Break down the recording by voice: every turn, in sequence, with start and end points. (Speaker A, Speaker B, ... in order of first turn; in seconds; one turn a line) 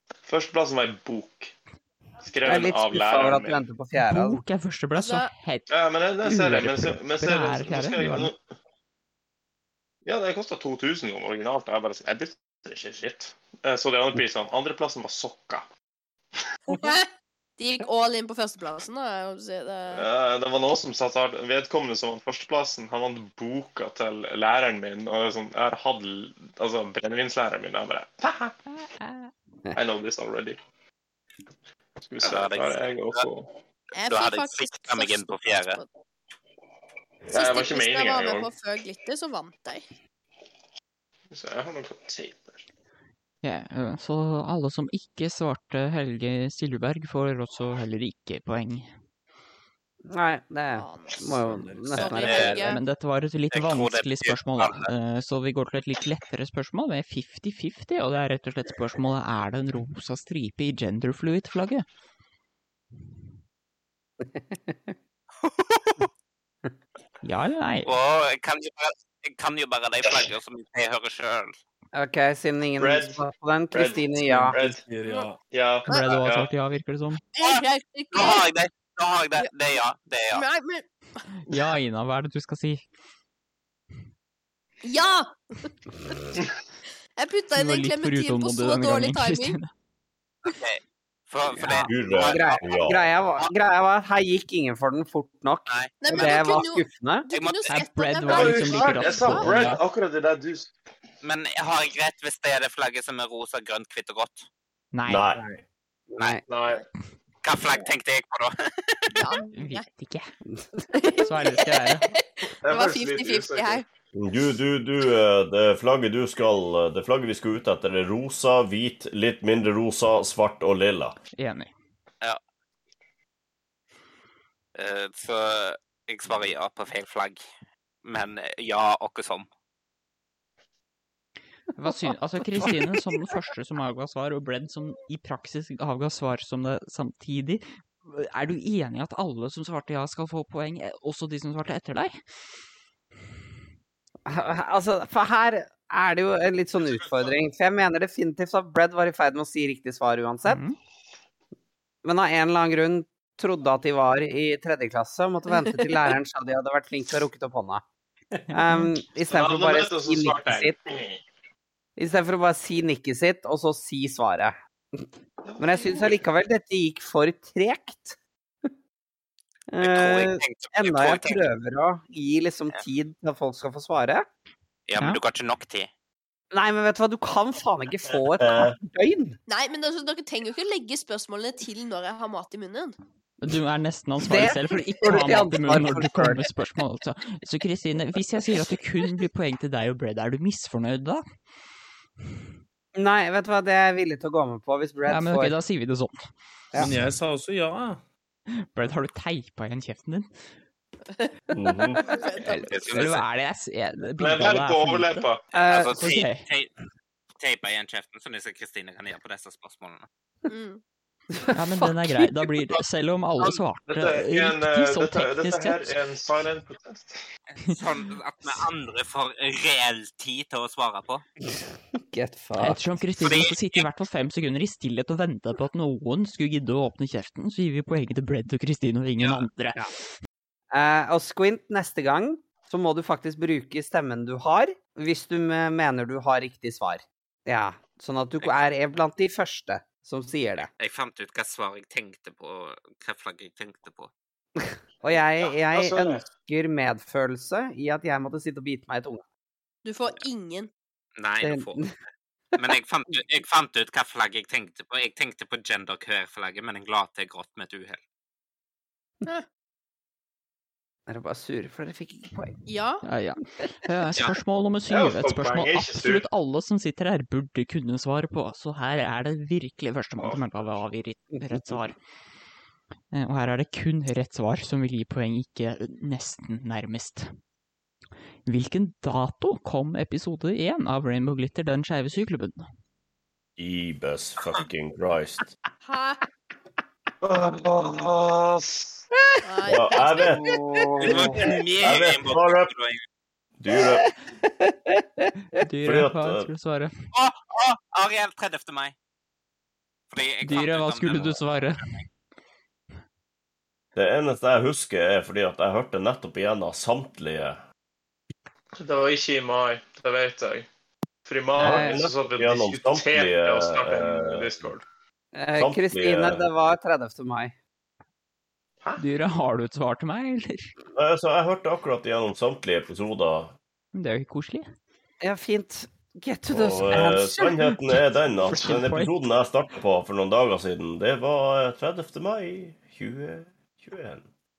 Speaker A: 0.3-1.5
Speaker A: 2.2-3.6
Speaker B: 2.4-4.4
Speaker C: 3.9-5.7
Speaker D: 4.9-5.3
Speaker A: 5.7-8.4
Speaker C: 6.2-8.3
Speaker A: 10.0-15.6
Speaker D: 16.7-20.1
Speaker A: 19.9-28.6
Speaker C: 29.0-29.3
Speaker A: 29.7-30.6
Speaker A: 32.0-33.5
Speaker E: 32.2-33.2
Speaker D: 33.9-35.9
Speaker E: 34.1-35.8
Speaker A: 37.3-38.5
Speaker D: 37.3-39.8
Speaker A: 41.3-42.6
Speaker C: 43.4-48.9
Speaker B: 50.1-52.8
Speaker D: 50.7-51.3
Speaker F: 51.2-52.1
Speaker D: 51.9-52.8
Speaker E: 52.0-52.6
Speaker C: 52.6-61.8
Speaker E: 53.5-54.9
Speaker B: 64.7-64.9
Speaker E: 65.4-66.0
Speaker C: 67.2-67.9
Speaker E: 67.8-71.5
Speaker B: 71.9-74.6
Speaker A: 72.8-73.2
Speaker A: 73.7-74.8
Speaker F: 74.2-75.4
Speaker A: 75.5-76.5
Speaker C: 75.9-77.2
Speaker D: 77.3-78.5
Speaker E: 77.4-80.4
Speaker D: 80.3-80.8
Speaker C: 81.5-82.8
Speaker D: 84.8-85.7
Speaker D: 87.2-89.6
Speaker C: 87.5-89.7
Speaker E: 90.4-92.7
Speaker B: 91.5-97.3
Speaker G: 91.9-93.1
Speaker E: 95.7-96.5
Speaker D: 96.0-99.7
Speaker E: 97.3-97.8
Speaker C: 97.7-99.8
Speaker A: 98.2-100.7
Speaker E: 101.2-104.5
Speaker C: 104.9-105.3
Speaker G: 105.1-105.4
Speaker B: 106.1-106.4
Speaker A: 106.5-106.8
Speaker E: 107.4-109.1
Speaker D: 109.1-109.8
Speaker C: 109.5-110.3
Speaker D: 110.9-113.8
Speaker C: 111.2-112.1
Speaker A: 112.6-113.8
Speaker G: 114.1-121.2
Speaker C: 121.3-121.7
Speaker E: 124.7-127.4
Speaker E: 128.0-129.5
Speaker C: 131.8-142.1
Speaker B: 144.2-150.6
Speaker C: 150.4-150.8
Speaker B: 152.0-157.8
Speaker B: 158.5-160.8
Speaker C: 158.7-158.9
Speaker A: 159.3-161.2
Speaker B: 162.0-165.0
Speaker B: 165.6-168.2
Speaker A: 165.7-166.1
Speaker B: 169.7-174.3
Speaker E: 169.8-171.4
Speaker E: 174.9-175.9
Speaker B: 176.5-179.4
Speaker G: 178.2-178.7
Speaker D: 179.5-182.9
Speaker C: 183.4-191.2
Speaker B: 184.2-186.5
Speaker B: 192.9-195.6
Speaker C: 195.1-196.3
Speaker B: 196.7-197.0
Speaker F: 196.8-198.0
Speaker C: 198.5-200.3
Speaker G: 201.5-202.0
Speaker D: 201.9-202.7
Speaker C: 202.4-205.3
Speaker E: 202.7-203.2
Speaker A: 204.2-205.4
Speaker B: 205.5-205.9
Speaker E: 205.6-206.7
Speaker C: 206.0-206.4
Speaker E: 207.4-210.1
Speaker D: 210.5-210.8
Speaker B: 211.4-212.3
Speaker C: 211.5-215.9
Speaker A: 213.9-217.2
Speaker E: 217.5-221.2
Speaker B: 222.1-222.8
Speaker C: 222.6-229.8
Speaker E: 223.2-223.8
Speaker E: 229.2-229.5
Speaker B: 230.7-240.7
Speaker E: 240.8-244.1
Speaker B: 245.0-249.2
Speaker A: 245.4-246.2
Speaker D: 249.8-250.7
Speaker E: 251.2-251.8
Speaker B: 251.4-251.9
Speaker E: 252.6-258.0
Speaker B: 261.1-262.6
Speaker D: 262.6-263.0
Speaker C: 263.0-272.0
Speaker A: 264.9-266.2
Speaker A: 270.2-270.5
Speaker B: 271.4-271.8
Speaker C: 273.1-277.3
Speaker C: 278.5-282.6
Speaker G: 283.6-285.5
Speaker D: 285.8-286.2
Speaker A: 287.2-289.0
Speaker D: 289.4-290.4
Speaker G: 289.7-290.4
Speaker A: 290.3-291.4
Speaker B: 290.5-291.5
Speaker E: 291.0-293.0
Speaker G: 291.8-292.7
Speaker G: 293.6-294.0
Speaker B: 293.8-294.1
Speaker C: 295.6-296.9
Speaker G: 295.8-296.5
Speaker E: 297.1-298.9
Speaker E: 300.1-302.0
Speaker C: 300.4-302.0
Speaker G: 303.9-307.6
Speaker A: 308.8-310.7
Speaker A: 311.2-314.8
Speaker B: 311.6-312.1
Speaker G: 311.6-314.6
Speaker B: 315.3-317.6
Speaker G: 315.5-316.5
Speaker C: 319.0-320.7
Speaker G: 320.9-323.6
Speaker C: 323.9-324.7
Speaker B: 325.2-327.8
Speaker G: 326.5-334.2
Speaker C: 328.5-329.1